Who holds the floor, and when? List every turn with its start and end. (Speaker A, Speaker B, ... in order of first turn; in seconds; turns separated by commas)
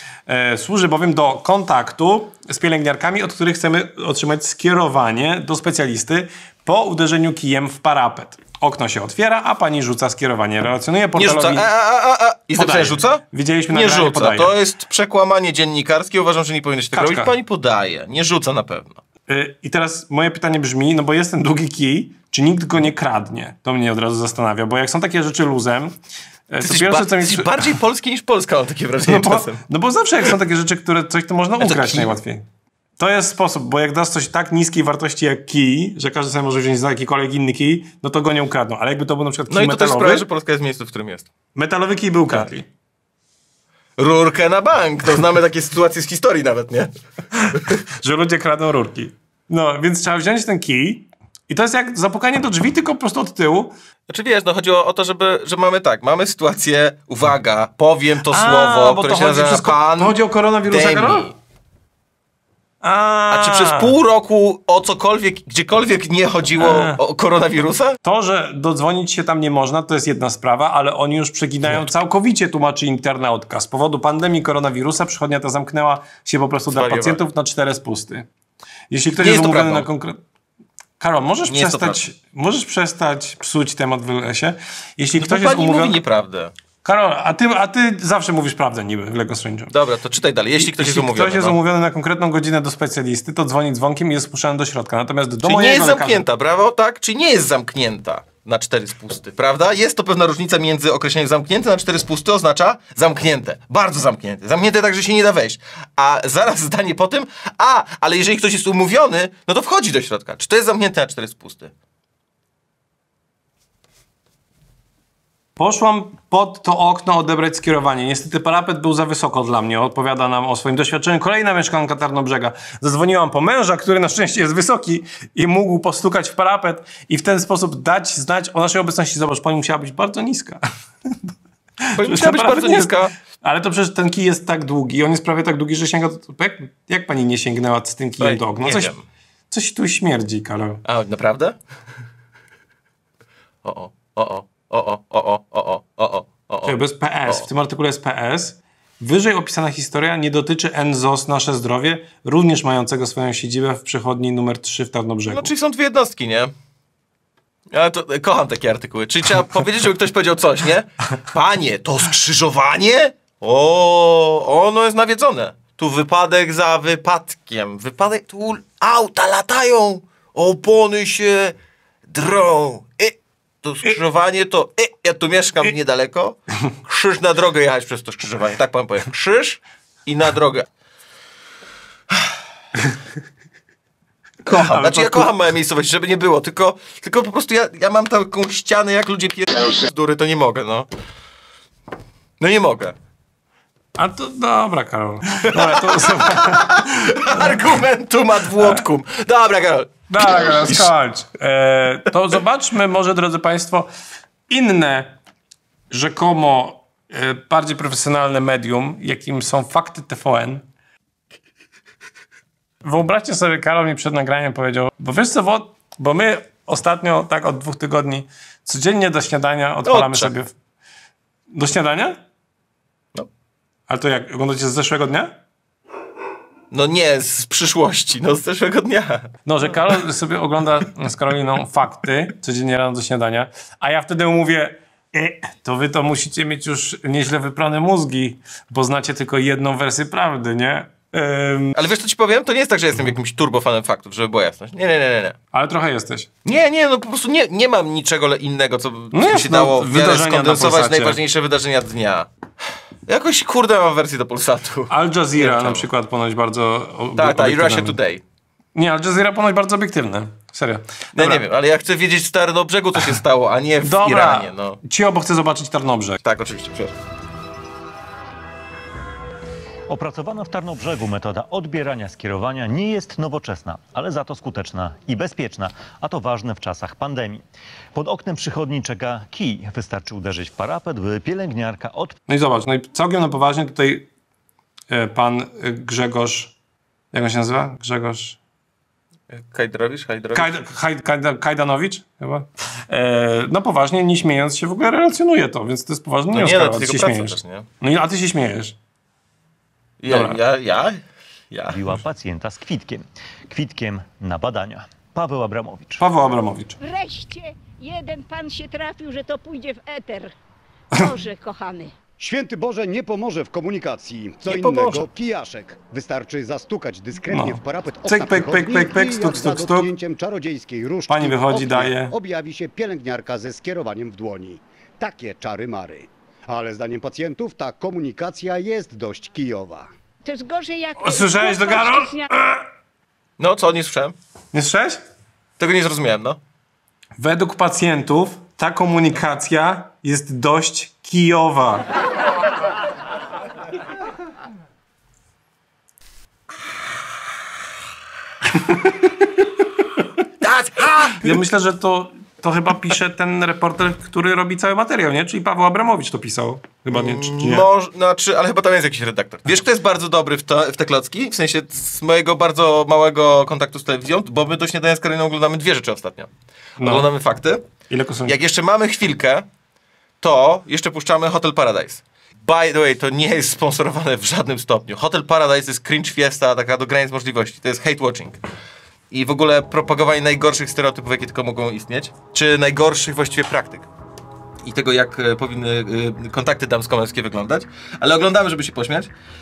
Speaker A: 0.3-11.7, Speaker B: 11.2-19.0, Speaker A: 12.6-14.5, Speaker A: 16.9-17.3, Speaker A: 19.3-25.9, Speaker A: 26.5-27.6, Speaker B: 26.6-29.6, Speaker A: 29.1-32.4, Speaker B: 31.6-32.2, Speaker A: 33.0-40.3, Speaker B: 39.5-41.3, Speaker A: 41.5-42.7, Speaker B: 44.0-46.9, Speaker A: 48.0-53.7, Speaker B: 54.1-61.3, Speaker A: 58.3-61.3, Speaker A: 62.8-63.9, Speaker B: 63.3-68.0, Speaker A: 66.6-67.0, Speaker A: 68.0-78.3, Speaker B: 76.7-77.2, Speaker A: 78.9-80.2, Speaker B: 79.1-79.9, Speaker A: 81.0-86.0, Speaker B: 81.4-82.0, Speaker B: 85.2-86.5, Speaker A: 86.8-89.7, Speaker B: 89.7-91.6, Speaker A: 90.6-96.2, Speaker B: 95.4-111.7, Speaker A: 115.6-130.6, Speaker B: 131.9-133.1, Speaker A: 132.0-139.0, Speaker B: 138.2-139.0, Speaker A: 139.5-140.8, Speaker B: 140.8-141.6, Speaker B: 143.6-147.5, Speaker A: 146.6-155.5, Speaker B: 155.3-156.5, Speaker B: 157.7-171.5, Speaker B: 172.1-180.7, Speaker B: 184.4-190.9, Speaker A: 184.5-185.3, Speaker B: 192.4-192.9, Speaker A: 193.9-197.6, Speaker B: 195.5-200.9, Speaker A: 198.6-198.8, Speaker A: 200.1-203.9, Speaker A: 204.5-205.2, Speaker A: 205.9-210.6, Speaker A: 212.8-220.5, Speaker B: 219.8-220.3, Speaker A: 221.5-222.2, Speaker A: 223.9-225.3, Speaker B: 226.7-229.3, Speaker A: 229.4-241.7, Speaker B: 241.7-245.3, Speaker A: 245.5-246.3, Speaker B: 246.4-252.3, Speaker A: 249.1-251.2, Speaker B: 253.1-255.9, Speaker A: 254.9-258.0, Speaker B: 257.1-258.2, Speaker A: 258.7-261.4, Speaker B: 261.1-264.8, Speaker A: 263.8-266.2, Speaker B: 266.2-266.9, Speaker C: 269.9-277.4, Speaker C: 277.9-282.1, Speaker A: 282.3-284.1, Speaker A: 284.9-286.5, Speaker A: 287.1-288.4, Speaker B: 289.3-290.5, Speaker A: 290.3-298.7, Speaker B: 296.3-297.6, Speaker B: 300.0-301.0, Speaker A: 300.1-300.4, Speaker B: 301.5-301.8, Speaker C: 301.7-306.0, Speaker A: 306.0-306.8, Speaker D: 306.8-310.3, Speaker D: 310.9-311.9, Speaker E: 312.2-329.9, Speaker B: 314.4-315.0, Speaker A: 317.3-319.9, Speaker A: 321.1-322.1, Speaker D: 330.2-332.3, Speaker A: 331.0-332.6, Speaker B: 333.4-334.1, Speaker A: 334.5-335.0, Speaker B: 335.6-336.4, Speaker A: 337.2-341.8, Speaker B: 350.4-351.4, Speaker A: 351.2-357.7, Speaker B: 356.9-366.3, Speaker A: 366.8-367.1, Speaker B: 366.8-367.6, Speaker A: 367.9-368.4, Speaker B: 368.2-369.4, Speaker B: 370.2-378.4, Speaker B: 379.1-383.9, Speaker B: 384.6-389.1